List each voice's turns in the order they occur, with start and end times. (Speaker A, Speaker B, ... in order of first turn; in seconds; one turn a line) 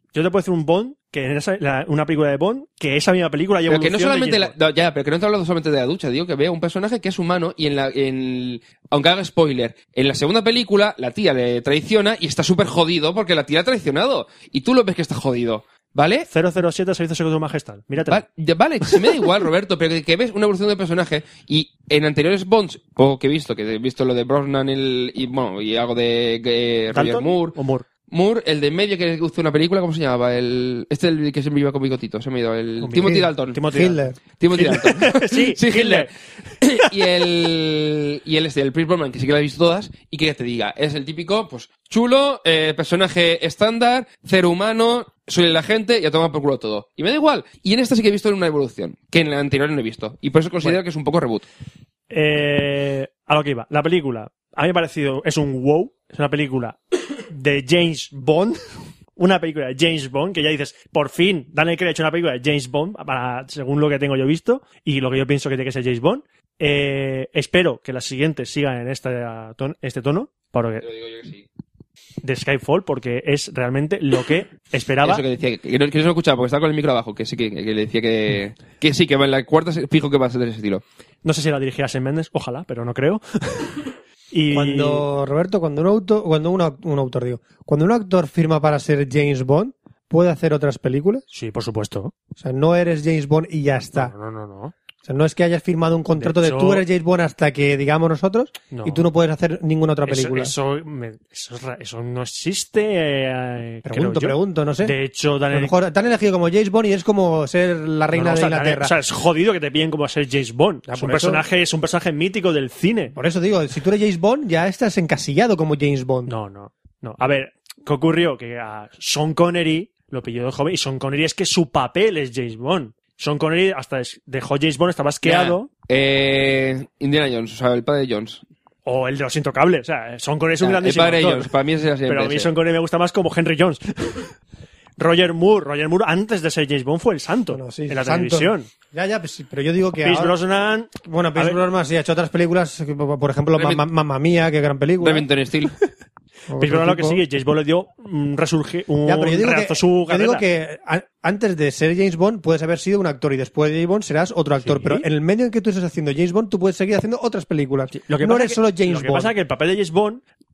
Speaker A: 0.1-4.5
Speaker B: 3.7-16.3
Speaker A: 16.3-18.2
Speaker B: 18.1-27.6
Speaker A: 26.9-27.9
Speaker B: 28.1-33.6
Speaker A: 32.8-34.0
Speaker C: 33.0-34.2
Speaker B: 34.4-51.4
Speaker A: 34.5-36.9
Speaker A: 52.1-58.6
Speaker A: 59.1-70.8
Speaker B: 70.8-71.5
Speaker A: 72.2-75.2
Speaker B: 75.0-80.8
Speaker A: 81.2-85.0
Speaker C: 84.5-91.2
Speaker A: 91.3-92.1
Speaker C: 92.3-94.1
Speaker A: 93.9-94.7
Speaker C: 95.0-100.5
Speaker A: 96.2-96.8
Speaker A: 98.7-99.0
Speaker A: 100.0-105.7
Speaker C: 103.8-104.9
Speaker C: 105.5-108.9
Speaker A: 108.1-113.1
Speaker C: 110.9-111.4
Speaker C: 113.1-116.3
Speaker A: 116.3-125.7
Speaker B: 125.2-128.4
Speaker A: 128.8-131.5
Speaker B: 130.6-132.5
Speaker A: 132.1-134.3
Speaker A: 135.0-138.7
Speaker C: 137.5-140.4
Speaker A: 140.0-141.6
Speaker C: 141.0-145.3
Speaker B: 143.6-143.8
Speaker B: 145.0-145.7
Speaker C: 146.5-147.2
Speaker A: 146.6-150.4
Speaker C: 149.0-159.3
Speaker A: 154.6-155.1
Speaker A: 157.9-160.2